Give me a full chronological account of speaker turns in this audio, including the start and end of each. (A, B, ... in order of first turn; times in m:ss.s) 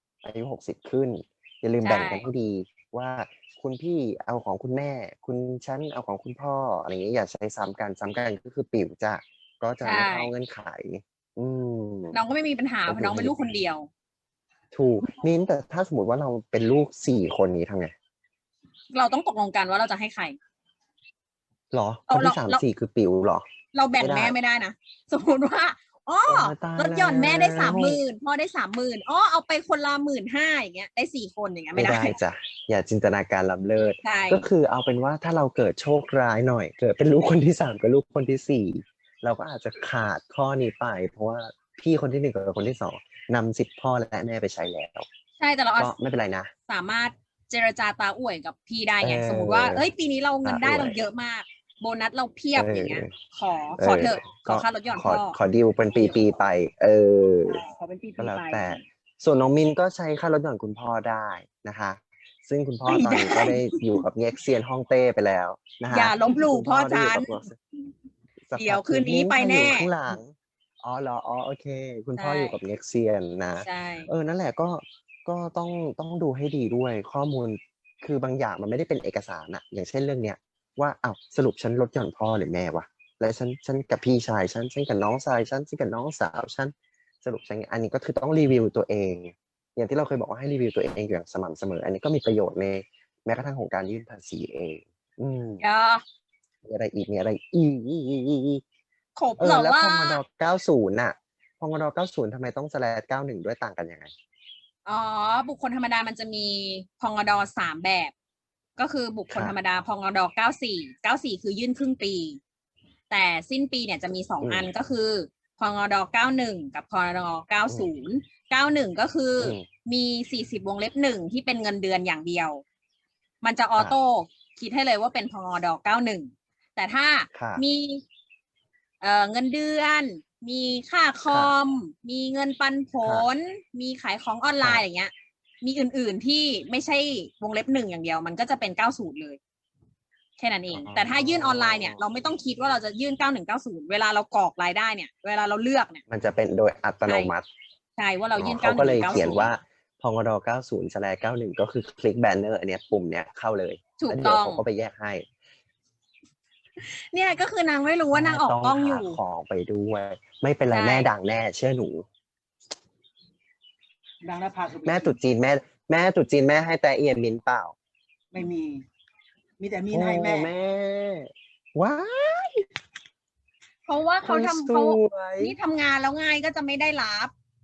0:00.2-0:12.2 A
0:01.8-0:02.3 B
0:09.8-0:10.3 B
0:12.1-0:13.9 B
0:12.9-0:13.4 A
0:14.7-0:17.9 A
0:18.9-0:20.4 B
0:21.7-0:23.4 A
0:22.1-0:22.6 B
0:23.7-0:32.2 B
0:24.0-0:24.4 A
0:26.2-0:28.0 A
0:31.8-0:45.1 A
0:34.0-0:34.5 B
0:45.4-0:45.9 B
0:45.8-0:46.5 A
0:46.7-0:55.4 B
0:49.0-0:49.8 A
0:50.4-0:51.0 A
0:52.6-0:53.1 A
0:53.8-0:57.6 A
0:55.9-0:56.2 B
0:57.5-0:58.8 B
0:58.2-1:07.6 A
1:02.9-1:04.0 B
1:05.9-1:07.4 B
1:08.4-1:35.6 A
1:08.6-1:09.9 B
1:12.2-1:12.6 B
1:13.6-1:14.1 B
1:35.6-1:36.0 B
1:36.6-1:38.6 A
1:39.2-1:40.2 B
1:39.4-1:44.1 A
1:44.9-1:48.1 B
1:48.8-1:52.4 B
1:49.3-1:49.6 A
1:53.1-2:02.6 B
1:54.4-1:54.7 A
1:59.4-1:59.7 A
2:03.4-2:08.0 B
2:07.3-2:07.6 A
2:09.0-2:19.4 B
2:11.3-2:11.5 A
2:13.0-2:13.3 A
2:20.4-2:26.0 B
2:20.7-2:22.0 A
2:26.1-2:27.4 A
2:27.1-2:27.3 B
2:28.0-2:29.5 B
2:28.4-2:35.2 A
2:34.0-2:34.7 B
2:36.8-2:39.2 B
2:38.1-2:42.0 A
2:40.7-2:41.1 B
2:44.2-2:45.2 C
2:44.9-2:47.7 A
2:48.3-2:48.8 C
2:49.6-2:50.5 C
2:49.9-2:52.7 A
2:53.9-2:57.3 B
2:54.2-2:55.6 A